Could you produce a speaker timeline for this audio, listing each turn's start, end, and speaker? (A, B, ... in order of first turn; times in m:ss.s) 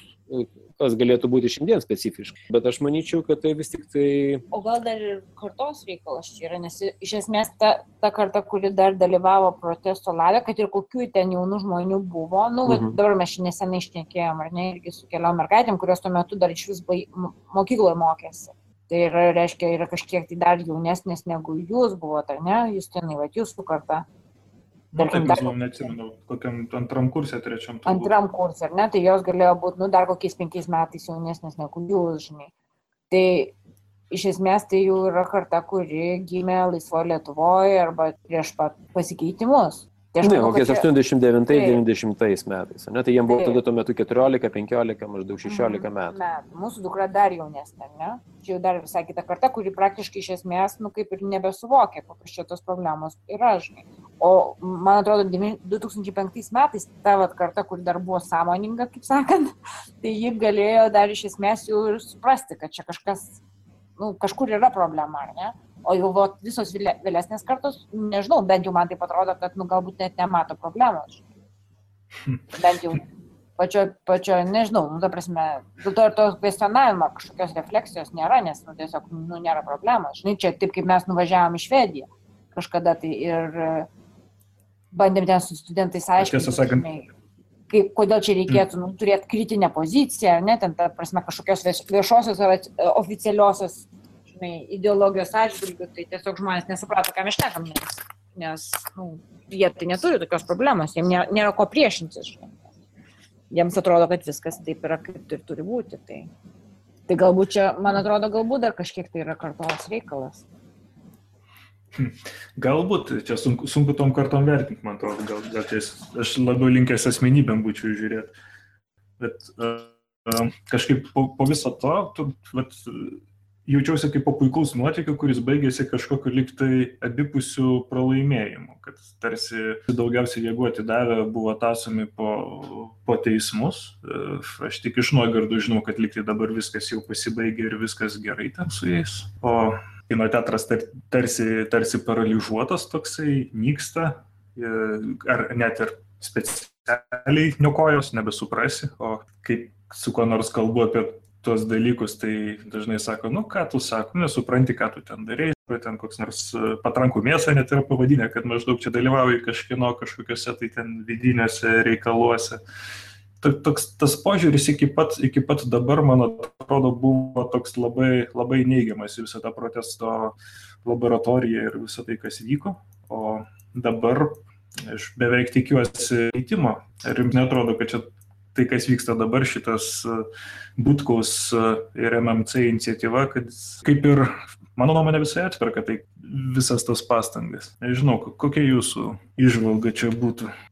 0:00.3-0:04.4 A
0:04.5-0:24.0 B
0:12.6-0:13.0 A
0:24.9-0:28.1 C
0:25.0-0:25.5 B
0:27.8-0:32.5 B
0:33.1-0:33.5 B
0:34.1-0:40.8 B
0:40.2-0:46.2 A
0:41.5-0:41.8 B
0:43.3-0:43.6 B
0:45.4-1:03.4 B
1:04.0-1:11.2 B
1:12.5-1:13.0 B
1:13.6-1:23.9 B
1:24.9-1:27.1 B
1:26.2-1:26.8 C
1:27.7-1:42.6 B
1:43.5-1:46.3 B
1:47.1-1:50.4 B
1:51.9-1:58.3 C
1:59.2-2:42.6 C
2:43.4-3:10.5 C